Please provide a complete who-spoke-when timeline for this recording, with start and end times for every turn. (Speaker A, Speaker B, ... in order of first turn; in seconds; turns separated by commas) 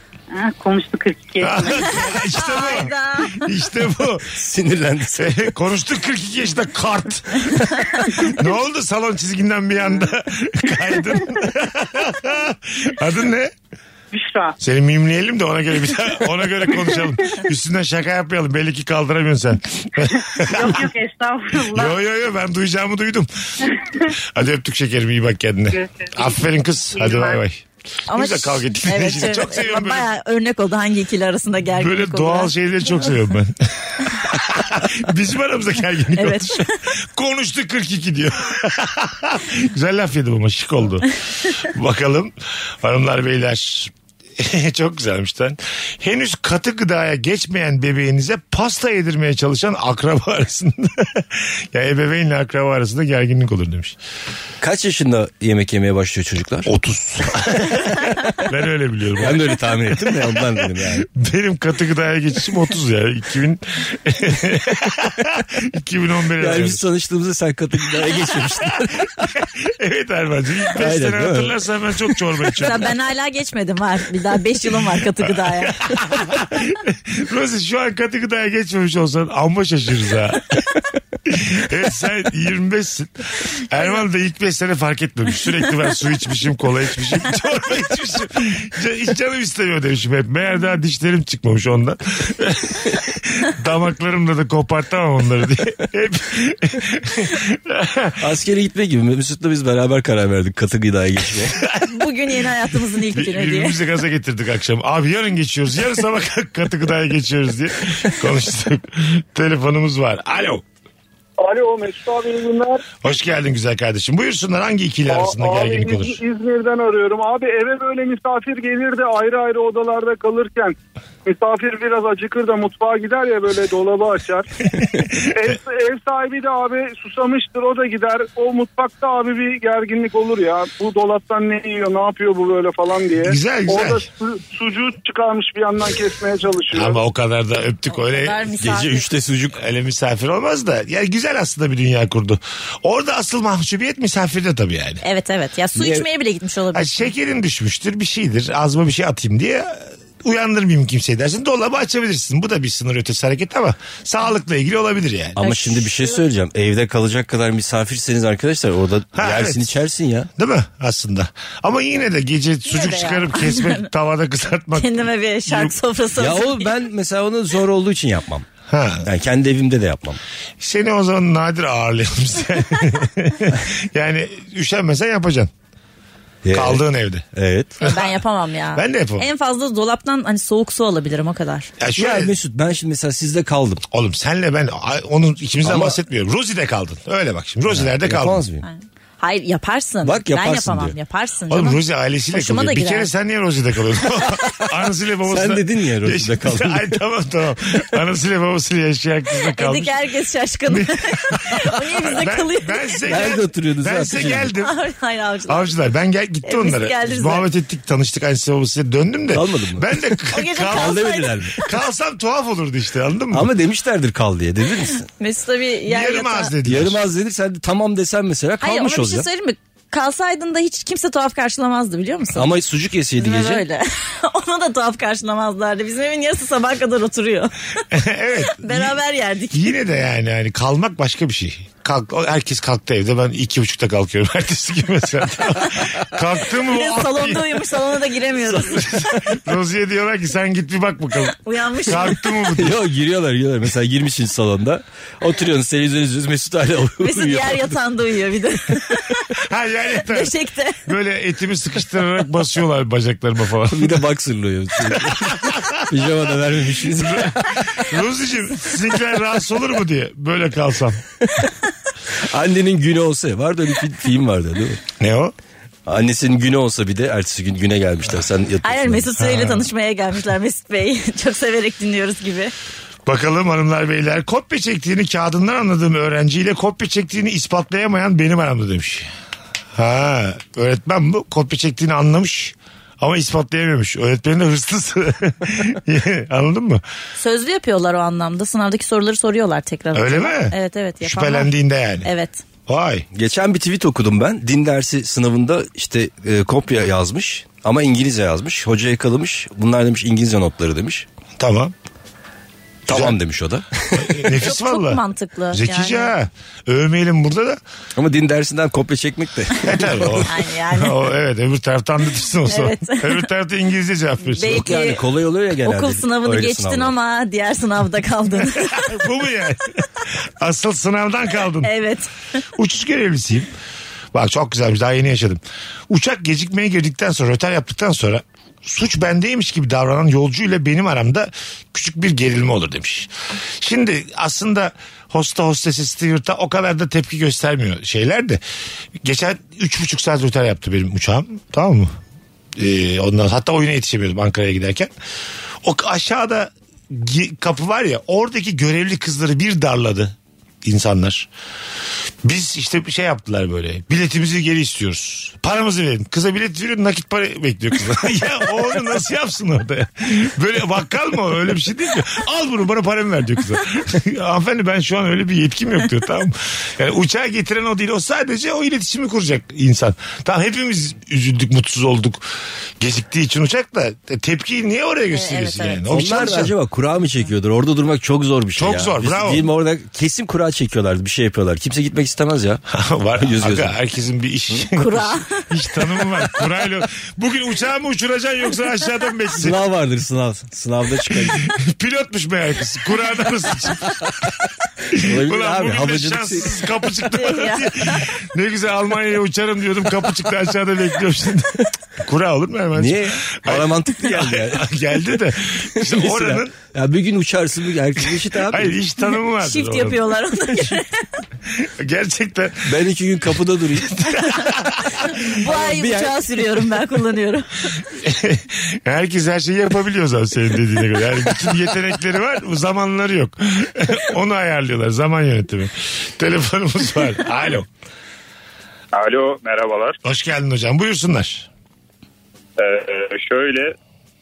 Speaker A: 0.3-2.2, Speaker B: 1.4-4.4, Speaker C: 2.3-3.5, Speaker D: 4.3-5.4, Speaker B: 5.2-13.5, Speaker A: 14.1-14.6, Speaker B: 14.6-20.9, Speaker A: 20.1-21.9, Speaker B: 21.7-30.1, Speaker A: 25.7-27.4, Speaker C: 28.1-32.5, Speaker B: 31.8-54.0, Speaker C: 36.1-36.8, Speaker D: 54.6-56.7, Speaker B: 56.6-66.8, Speaker D: 57.3-58.4, Speaker D: 59.2-61.0, Speaker D: 66.4-69.2, Speaker B: 68.6-72.9, Speaker D: 70.7-71.6, Speaker C: 72.6-75.9, Speaker B: 75.5-80.7, Speaker B: 81.2-98.2, Speaker D: 98.2-101.6, Speaker B: 101.5-102.1, Speaker C: 101.8-103.8, Speaker B: 103.1-110.6, Speaker E: 111.4-112.9, Speaker B: 113.0-116.2, Speaker E: 115.1-124.5, Speaker E: 125.3-137.0, Speaker B: 133.2-134.1, Speaker B: 136.7-138.5, Speaker C: 137.9-139.1, Speaker D: 138.6-139.6, Speaker B: 139.5-145.0, Speaker C: 145.0-147.1, Speaker D: 145.8-146.1, Speaker B: 146.7-155.4, Speaker D: 155.3-160.3, Speaker C: 155.4-156.2, Speaker B: 159.1-159.7, Speaker B: 160.4-165.8, Speaker C: 162.7-163.9, Speaker C: 164.8-166.7, Speaker D: 166.2-168.5, Speaker B: 168.7-169.1, Speaker D: 169.0-170.2, Speaker B: 170.6-175.5, Speaker D: 176.4-177.8, Speaker B: 176.5-177.2, Speaker B: 177.8-178.1, Speaker C: 177.8-181.7, Speaker B: 178.7-179.3, Speaker B: 181.8-182.3, Speaker D: 181.9-183.8, Speaker B: 183.9-188.4, Speaker D: 185.6-186.0, Speaker D: 187.7-188.6, Speaker C: 188.6-193.1, Speaker D: 190.0-190.9, Speaker B: 191.5-199.9, Speaker D: 195.3-197.0, Speaker C: 199.6-203.0, Speaker B: 200.7-204.7, Speaker D: 203.1-204.5, Speaker C: 204.6-205.7, Speaker B: 205.5-211.0, Speaker C: 206.4-207.4, Speaker D: 209.3-210.1, Speaker C: 210.3-211.6, Speaker D: 210.7-211.7, Speaker B: 211.6-213.5, Speaker D: 213.3-215.1, Speaker C: 215.2-216.5, Speaker B: 215.9-217.0, Speaker D: 216.6-219.3, Speaker C: 218.6-222.5, Speaker D: 222.3-223.6, Speaker C: 223.2-227.6, Speaker B: 227.9-229.0, Speaker C: 228.5-229.7, Speaker B: 229.5-237.6, Speaker C: 236.6-238.8, Speaker B: 238.5-242.8, Speaker C: 241.4-242.2, Speaker D: 242.5-247.8, Speaker C: 247.0-249.3, Speaker B: 249.3-250.3, Speaker C: 250.1-250.8, Speaker B: 250.8-254.0, Speaker D: 253.7-257.5, Speaker B: 254.9-256.0, Speaker B: 256.9-261.0, Speaker D: 261.2-261.5, Speaker D: 262.1-264.8, Speaker B: 265.0-265.3, Speaker D: 265.9-269.1, Speaker C: 268.6-272.5, Speaker B: 269.2-269.6, Speaker B: 273.1-279.1, Speaker B: 279.7-286.8, Speaker C: 287.2-291.5, Speaker B: 289.9-292.1, Speaker C: 292.0-292.4, Speaker B: 292.7-293.1, Speaker D: 293.1-301.1, Speaker B: 301.4-301.7, Speaker D: 302.9-304.3, Speaker B: 302.9-303.2, Speaker B: 303.9-307.6, Speaker C: 304.4-306.1, Speaker D: 308.0-310.3, Speaker B: 309.6-314.6, Speaker C: 310.2-311.1, Speaker C: 312.5-313.2, Speaker C: 314.3-315.0, Speaker D: 314.4-316.9, Speaker C: 315.6-319.0, Speaker B: 318.6-321.7, Speaker C: 321.6-322.1, Speaker B: 322.5-323.5, Speaker B: 324.1-338.4, Speaker B: 339.0-341.9, Speaker B: 342.6-344.9, Speaker B: 345.6-351.3, Speaker B: 352.2-376.5, Speaker C: 375.1-375.8, Speaker D: 375.9-382.6, Speaker B: 378.6-379.5, Speaker B: 382.7-389.6, Speaker D: 383.2-383.7, Speaker C: 384.8-385.4, Speaker D: 389.4-391.5, Speaker B: 391.2-394.1, Speaker B: 394.9-406.6, Speaker D: 394.9-396.6, Speaker C: 397.1-398.0, Speaker D: 402.8-404.7, Speaker D: 405.8-408.8, Speaker B: 408.0-410.0, Speaker C: 409.4-411.0, Speaker B: 411.5-412.8, Speaker D: 412.6-414.0, Speaker B: 413.8-415.2, Speaker C: 414.3-417.5, Speaker D: 415.2-416.6, Speaker B: 417.9-427.7, Speaker F: 428.9-429.9, Speaker B: 430.0-431.5, Speaker F: 432.6-433.7